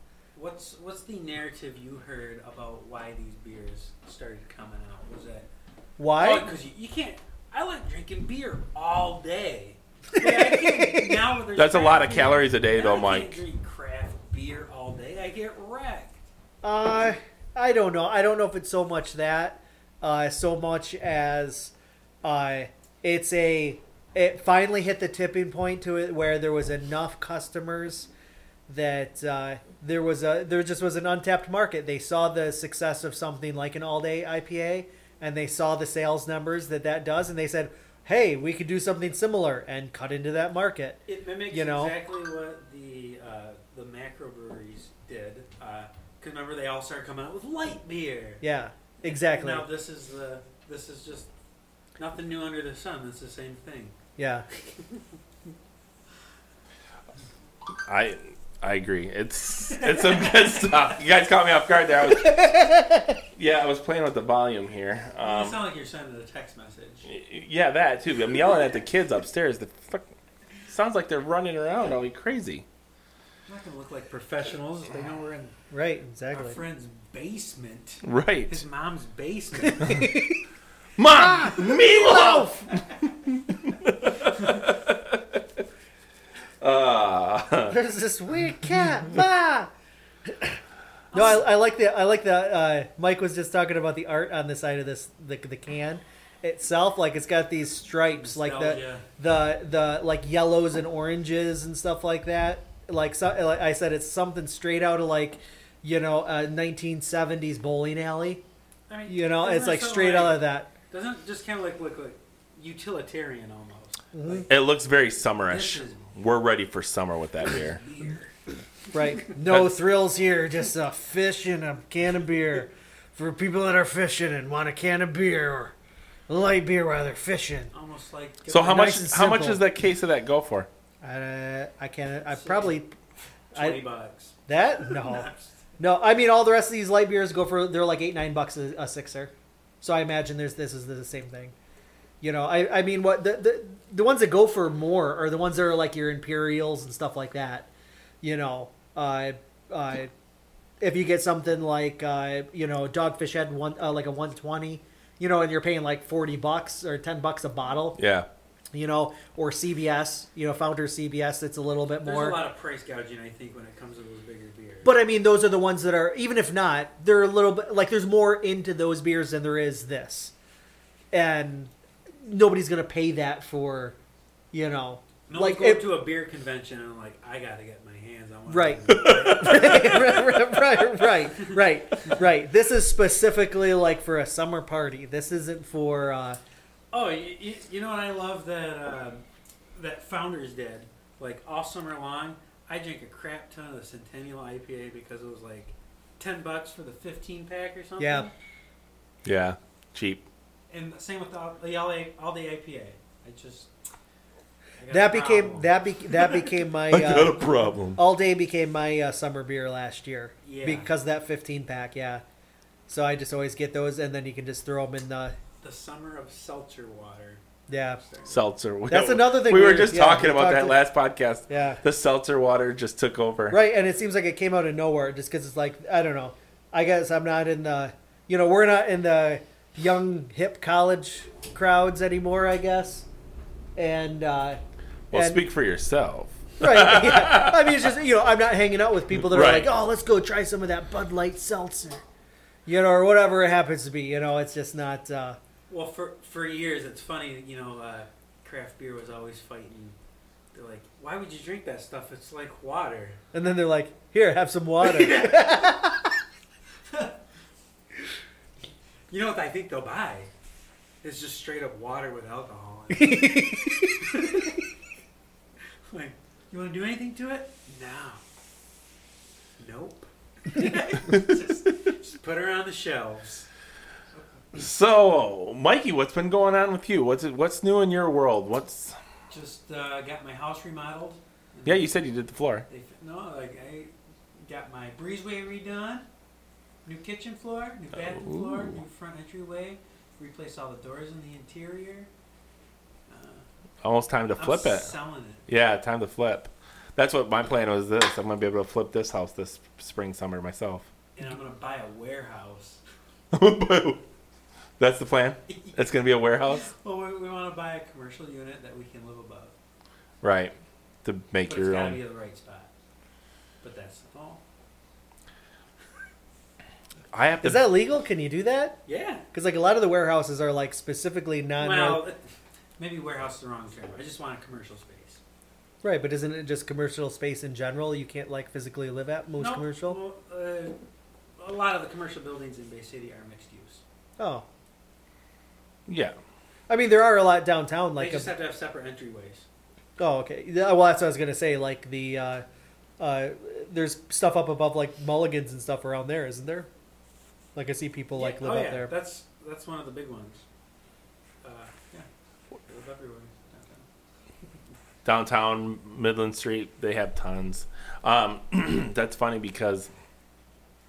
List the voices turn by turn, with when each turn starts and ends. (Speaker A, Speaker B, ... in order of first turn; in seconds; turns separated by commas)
Speaker A: 0.3-5.5, Speaker B: 6.0-6.5, Speaker A: 6.2-16.2, Speaker B: 10.2-11.2, Speaker C: 11.6-13.4, Speaker B: 16.6-28.1, Speaker B: 28.7-42.0, Speaker A: 41.1-48.4, Speaker B: 48.4-49.7, Speaker A: 49.0-51.3, Speaker A: 52.0-54.0, Speaker B: 54.2-54.5, Speaker A: 54.6-55.0, Speaker C: 57.9-62.7, Speaker A: 59.8-60.5, Speaker B: 62.1-63.2, Speaker C: 63.3-65.6, Speaker A: 65.2-67.1, Speaker C: 67.1-70.1, Speaker C: 70.7-72.7, Speaker A: 73.5-75.5, Speaker B: 75.7-76.6, Speaker A: 76.3-80.1, Speaker C: 78.0-78.6, Speaker B: 79.6-80.4, Speaker C: 81.0-85.4, Speaker B: 81.3-82.8, Speaker C: 86.6-87.8, Speaker B: 87.7-89.7, Speaker B: 90.3-90.6, Speaker A: 91.1-91.4, Speaker B: 91.1-108.4, Speaker A: 98.2-99.0, Speaker A: 108.9-114.5, Speaker B: 109.1-110.7, Speaker B: 114.1-114.5, Speaker C: 114.5-117.8, Speaker A: 115.5-116.1, Speaker A: 117.5-118.3, Speaker B: 118.9-125.7, Speaker B: 126.3-127.7, Speaker A: 127.7-128.9, Speaker C: 128.5-130.7, Speaker B: 128.6-129.6, Speaker B: 131.0-132.9, Speaker A: 132.3-132.8, Speaker A: 133.5-135.6, Speaker B: 134.5-141.5, Speaker B: 142.2-147.7, Speaker B: 148.2-150.1, Speaker B: 150.8-158.0, Speaker C: 158.0-158.3, Speaker B: 158.7-162.4, Speaker A: 162.0-164.9, Speaker B: 164.8-170.3, Speaker B: 171.1-171.7, Speaker B: 172.2-174.0, Speaker B: 174.5-175.9, Speaker A: 175.3-180.4, Speaker B: 178.5-186.4, Speaker C: 178.9-179.8, Speaker A: 186.9-198.3, Speaker B: 198.0-198.3, Speaker C: 199.2-200.2, Speaker A: 200.7-203.7, Speaker A: 204.8-206.4, Speaker B: 204.9-212.2, Speaker C: 206.9-208.0, Speaker A: 210.4-210.9, Speaker B: 212.9-215.3, Speaker A: 215.6-218.4, Speaker B: 217.7-218.0, Speaker C: 218.3-223.6, Speaker B: 218.9-220.8, Speaker B: 221.5-221.8, Speaker B: 223.5-233.1, Speaker B: 233.8-234.6, Speaker C: 235.1-237.8, Speaker B: 235.1-235.4, Speaker B: 236.6-242.0, Speaker C: 239.1-239.7, Speaker B: 242.7-245.4, Speaker A: 245.7-250.0, Speaker A: 250.5-253.2, Speaker B: 253.3-256.1, Speaker A: 254.8-255.7, Speaker A: 256.9-257.1, Speaker A: 259.1-260.3, Speaker A: 261.0-264.5, Speaker B: 262.9-263.9, Speaker A: 265.9-268.2, Speaker A: 269.6-273.5, Speaker C: 271.0-271.4, Speaker A: 274.1-274.4, Speaker C: 274.5-279.0, Speaker A: 279.3-281.9, Speaker C: 281.6-282.6, Speaker A: 282.7-286.0, Speaker A: 286.9-292.1, Speaker C: 288.1-288.8, Speaker A: 293.1-293.5, Speaker C: 293.8-294.9, Speaker A: 294.4-295.5, Speaker C: 295.5-300.9, Speaker A: 301.1-302.8, Speaker C: 303.3-304.0, Speaker C: 304.8-306.7, Speaker A: 306.5-309.5, Speaker C: 310.2-312.0, Speaker A: 311.5-312.7, Speaker A: 313.6-314.4, Speaker C: 317.1-317.7, Speaker B: 317.4-322.0, Speaker A: 318.9-319.2, Speaker A: 321.6-325.2, Speaker B: 325.8-330.0, Speaker A: 329.4-330.7, Speaker A: 331.4-333.8, Speaker B: 334.2-334.4, Speaker C: 335.9-336.1, Speaker B: 336.7-338.3, Speaker A: 338.0-339.5, Speaker B: 340.0-342.4, Speaker B: 343.0-346.7, Speaker B: 347.5-348.9, Speaker A: 348.1-350.4, Speaker A: 351.4-352.1, Speaker A: 352.6-353.9, Speaker C: 355.0-359.9